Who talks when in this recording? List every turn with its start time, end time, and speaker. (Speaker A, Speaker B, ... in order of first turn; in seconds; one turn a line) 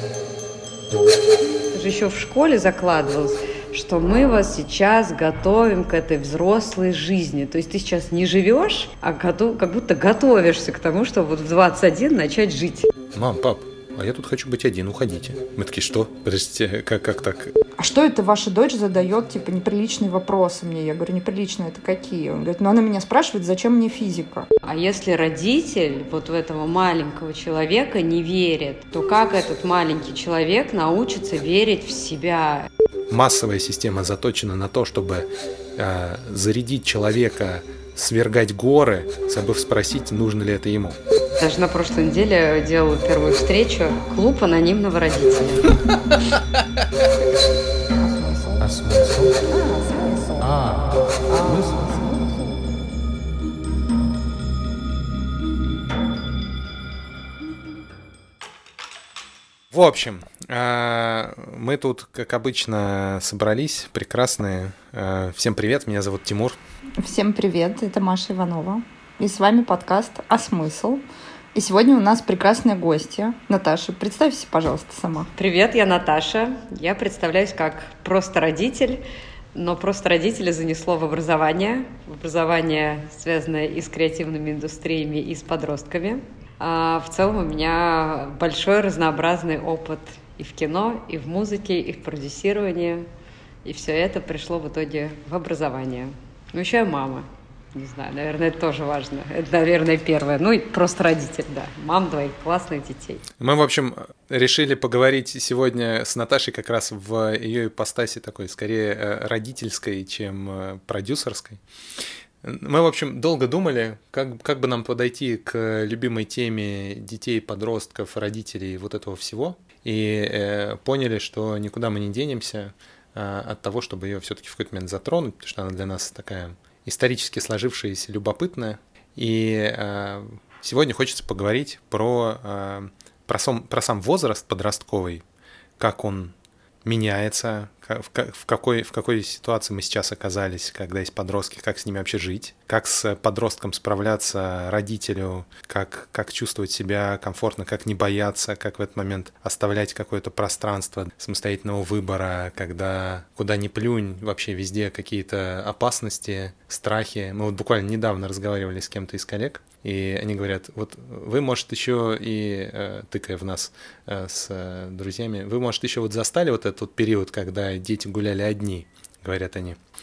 Speaker A: 1.7-12.9
Speaker B: 13.1-17.5
Speaker C: 17.8-24.5
Speaker A: 24.6-32.7
Speaker B: 33.1-41.0
Speaker A: 41.4-45.7
Speaker C: 48.0-48.7
Speaker B: 48.6-49.4
Speaker C: 49.4-50.5
Speaker B: 50.4-51.8
Speaker C: 51.3-52.6
Speaker B: 59.7-66.6
Speaker C: 67.0-71.0
Speaker C: 71.5-75.3
Speaker A: 75.4-79.0
Speaker A: 79.5-93.1
Speaker A: 93.6-103.2
Speaker B: 103.4-111.6
Speaker B: 112.4-135.2
Speaker B: 135.8-169.8